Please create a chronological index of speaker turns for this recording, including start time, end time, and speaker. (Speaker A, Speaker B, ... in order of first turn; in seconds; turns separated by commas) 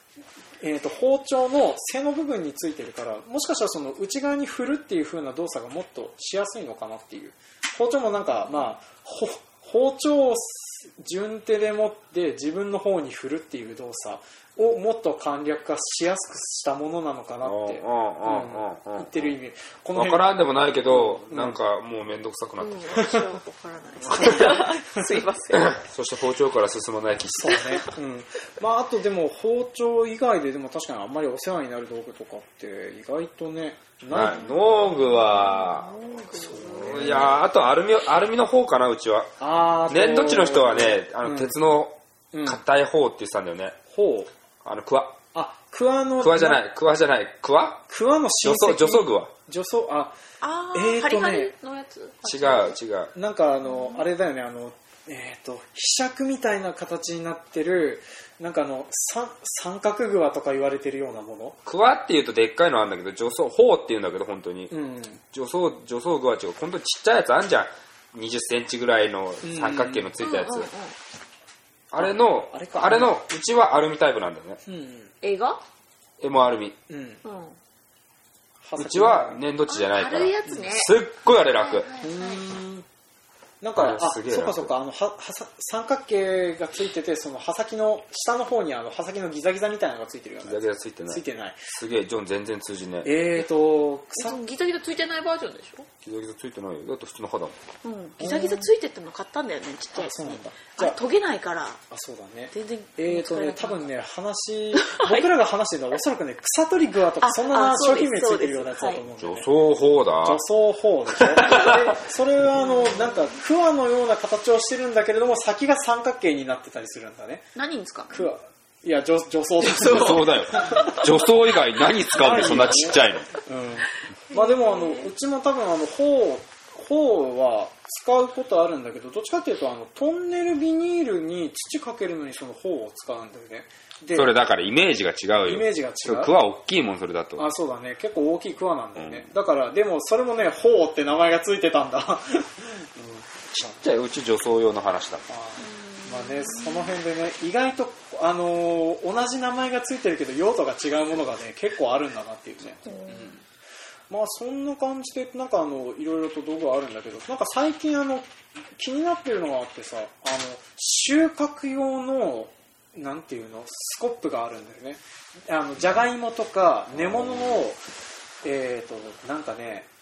Speaker A: 0.6-20.3, Speaker B: 17.4-19.3, Speaker B: 19.9-23.2, Speaker A: 20.9-21.6, Speaker C: 22.6-25.8, Speaker A: 24.1-25.1, Speaker B: 24.1-24.4, Speaker B: 25.5-27.7, Speaker A: 27.3-34.5, Speaker B: 34.1-35.9, Speaker C: 34.2-37.4, Speaker A: 36.3-37.4, Speaker B: 36.7-39.4, Speaker A: 39.4-41.5, Speaker B: 39.9-43.8, Speaker A: 42.3-42.6, Speaker A: 43.9-44.3, Speaker B: 44.6-45.2, Speaker A: 45.3-46.6, Speaker B: 46.2-47.8, Speaker A: 47.9-50.2, Speaker B: 48.4-49.3, Speaker C: 50.4-52.8, Speaker A: 50.7-51.5, Speaker B: 52.2-53.1, Speaker A: 53.1-61.6, Speaker C: 53.7-54.0, Speaker B: 61.6-64.7, Speaker A: 64.7-65.2, Speaker B: 65.3-70.7, Speaker A: 69.4-70.1, Speaker C: 70.2-70.9, Speaker B: 71.9-74.6, Speaker A: 72.0-73.2, Speaker A: 74.7-75.1, Speaker C: 75.2-75.6, Speaker B: 76.2-76.8, Speaker A: 76.9-77.2, Speaker C: 77.2-77.6, Speaker A: 78.6-79.4, Speaker B: 78.8-81.9, Speaker C: 79.7-80.9, Speaker C: 81.5-82.4, Speaker A: 82.0-82.8, Speaker A: 83.6-91.7, Speaker B: 83.8-84.7, Speaker B: 90.4-93.1, Speaker A: 93.0-94.4, Speaker C: 94.2-95.9, Speaker B: 96.0-97.6, Speaker C: 97.8-101.8, Speaker A: 98.2-98.7, Speaker A: 99.9-101.0, Speaker A: 101.9-109.5, Speaker C: 102.5-103.9, Speaker C: 104.7-105.3, Speaker C: 107.2-109.0, Speaker B: 109.2-110.4, Speaker A: 110.2-117.5, Speaker B: 111.2-111.7, Speaker C: 112.6-113.3, Speaker C: 117.5-118.2, Speaker A: 118.1-121.0, Speaker C: 119.6-121.0, Speaker B: 119.8-123.3, Speaker A: 122.1-134.3, Speaker C: 124.3-125.1, Speaker B: 134.1-137.5, Speaker A: 135.4-136.3, Speaker A: 137.4-143.8, Speaker B: 138.9-139.3, Speaker B: 143.5-145.2, Speaker A: 145.3-153.4, Speaker C: 145.6-146.9, Speaker C: 152.8-153.3, Speaker A: 154.1-167.8, Speaker B: 166.9-167.7, Speaker A: 168.4-169.9